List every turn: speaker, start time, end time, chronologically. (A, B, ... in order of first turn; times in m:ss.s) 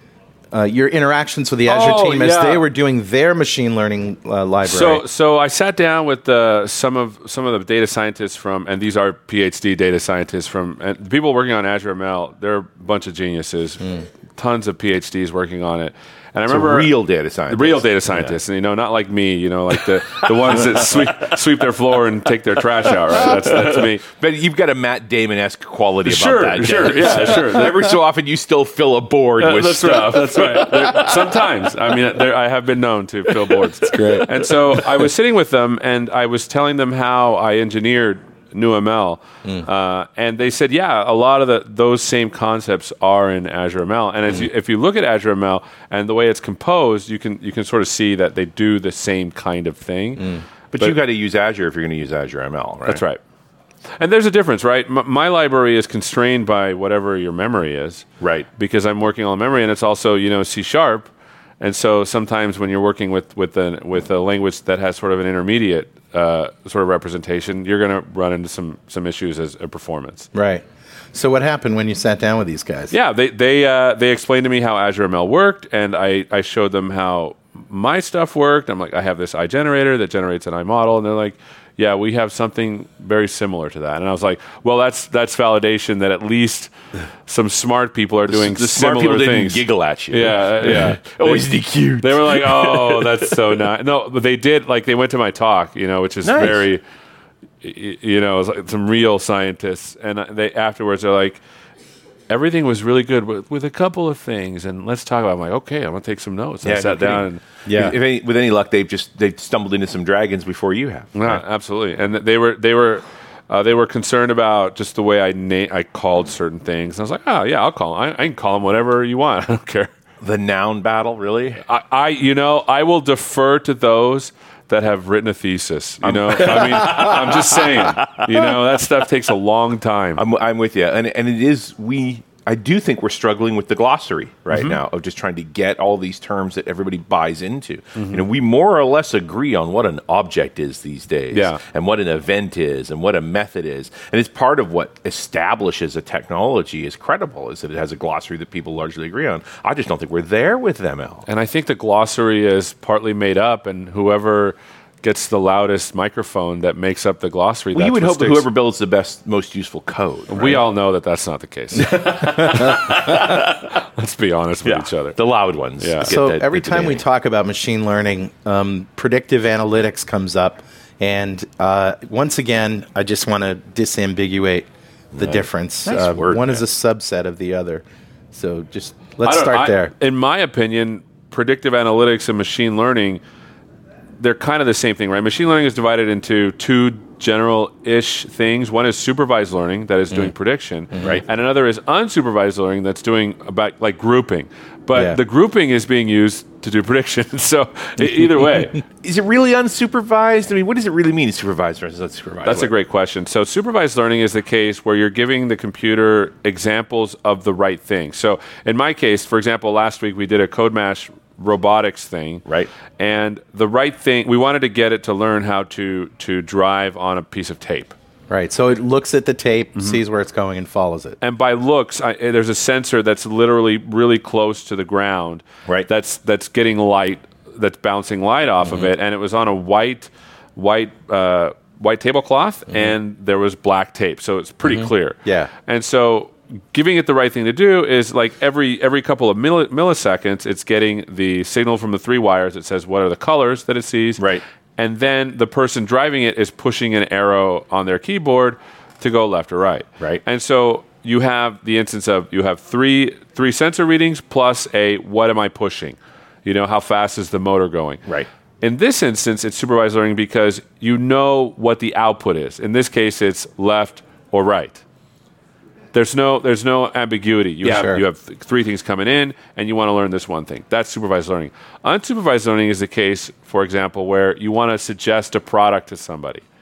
0:00.5-0:05.0 A
0:01.6-0:02.6 B
0:04.6-0:16.9 B
0:16.5-0:18.4 C
0:17.5-0:24.0 B
0:20.0-0:21.2 C
0:22.9-0:31.4 C
0:26.0-0:27.9 B
0:29.4-0:51.0 B
0:33.3-0:34.3 C
0:33.9-0:34.3 A
0:50.7-0:53.0 C
0:52.8-0:53.2 B
0:54.0-0:58.0 B
0:58.2-0:58.5 C
0:58.6-1:01.1 B
1:01.6-1:10.3 B
1:10.3-1:12.9 A
1:12.9-1:26.7 B
1:27.2-1:31.4 B
1:28.3-1:33.4 C
1:32.0-1:36.8 B
1:36.2-1:36.7 C
1:37.6-1:41.4 B
1:42.3-1:47.4 B
1:46.6-1:51.4 C
1:47.6-1:47.9 A
1:51.1-1:59.9 B
2:00.2-2:01.6 C
2:01.6-2:10.2 B
2:06.0-2:08.5 C
2:10.2-2:31.2 C
2:14.5-2:14.8 B
2:18.0-2:18.2 B
2:21.3-2:21.6 B
2:31.2-2:38.4 B
2:37.7-2:40.6 C
2:40.3-2:45.2 B
2:41.8-2:43.6 C
2:44.6-2:47.0 C
2:45.8-2:46.2 B
2:46.0-2:59.9 A
2:55.1-2:56.6 C
2:59.2-3:03.2 B
3:04.2-3:18.8 B
3:19.0-3:22.7 C
3:22.4-3:32.4 B
3:33.0-3:37.9 B
3:38.3-3:41.2 A
3:41.2-4:04.2 B
3:55.2-3:55.5 A
4:04.2-4:04.4 C
4:04.8-4:18.0 B
4:18.6-4:24.8 B
4:25.9-4:36.4 B
4:27.6-4:28.0 A